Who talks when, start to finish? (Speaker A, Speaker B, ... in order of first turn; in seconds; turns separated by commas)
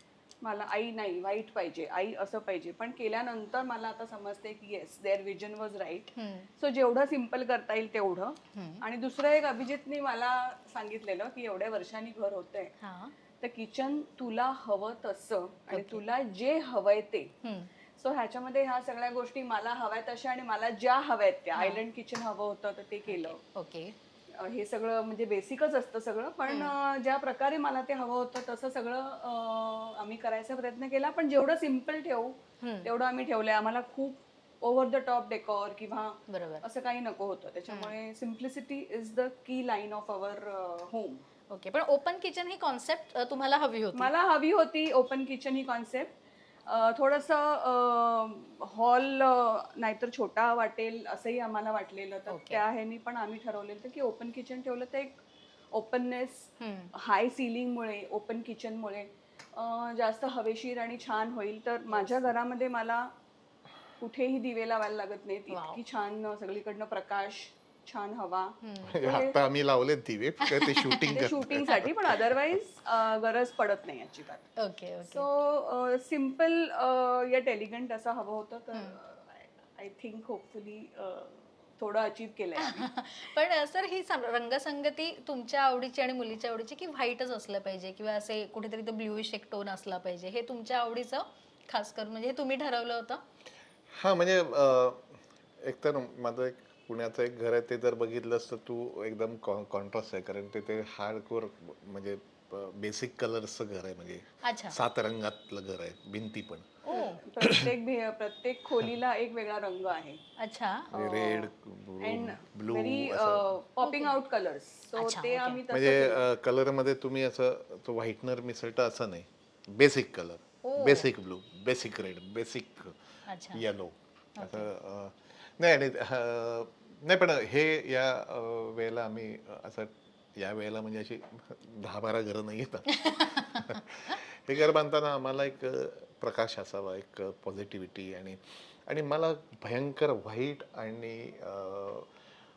Speaker A: 0.4-12.7, Speaker B: 6.2-6.5, Speaker B: 8.5-8.8, Speaker B: 12.8-13.1, Speaker A: 13.4-17.3, Speaker B: 15.7-16.1, Speaker B: 17.4-17.7, Speaker A: 18.0-23.4, Speaker B: 21.6-21.8, Speaker B: 23.1-23.9, Speaker A: 24.4-41.2, Speaker B: 26.5-26.7, Speaker B: 32.6-32.9, Speaker B: 36.3-36.6, Speaker B: 37.7-37.9, Speaker B: 41.5-44.1, Speaker A: 44.0-46.1, Speaker A: 46.7-55.2, Speaker B: 52.3-52.6, Speaker A: 55.7-63.1, Speaker B: 56.6-56.9, Speaker B: 61.9-62.3, Speaker A: 64.0-69.4, Speaker B: 65.5-65.8, Speaker B: 68.6-69.1, Speaker C: 68.9-72.3, Speaker B: 70.5-71.8, Speaker A: 71.1-74.5, Speaker B: 74.6-75.3, Speaker A: 75.1-82.9, Speaker B: 82.6-93.2, Speaker C: 93.9-106.8, Speaker B: 104.4-104.8, Speaker A: 106.9-110.2, Speaker B: 106.9-107.2, Speaker C: 107.4-107.7, Speaker B: 110.4-110.9, Speaker A: 110.9-111.5, Speaker C: 110.9-113.6, Speaker A: 112.0-116.2, Speaker B: 113.8-114.2, Speaker B: 115.0-115.6, Speaker C: 115.7-123.0, Speaker B: 120.7-121.1, Speaker B: 123.3-123.6, Speaker C: 123.5-132.9, Speaker B: 124.4-124.7, Speaker B: 132.9-133.8, Speaker C: 133.6-142.1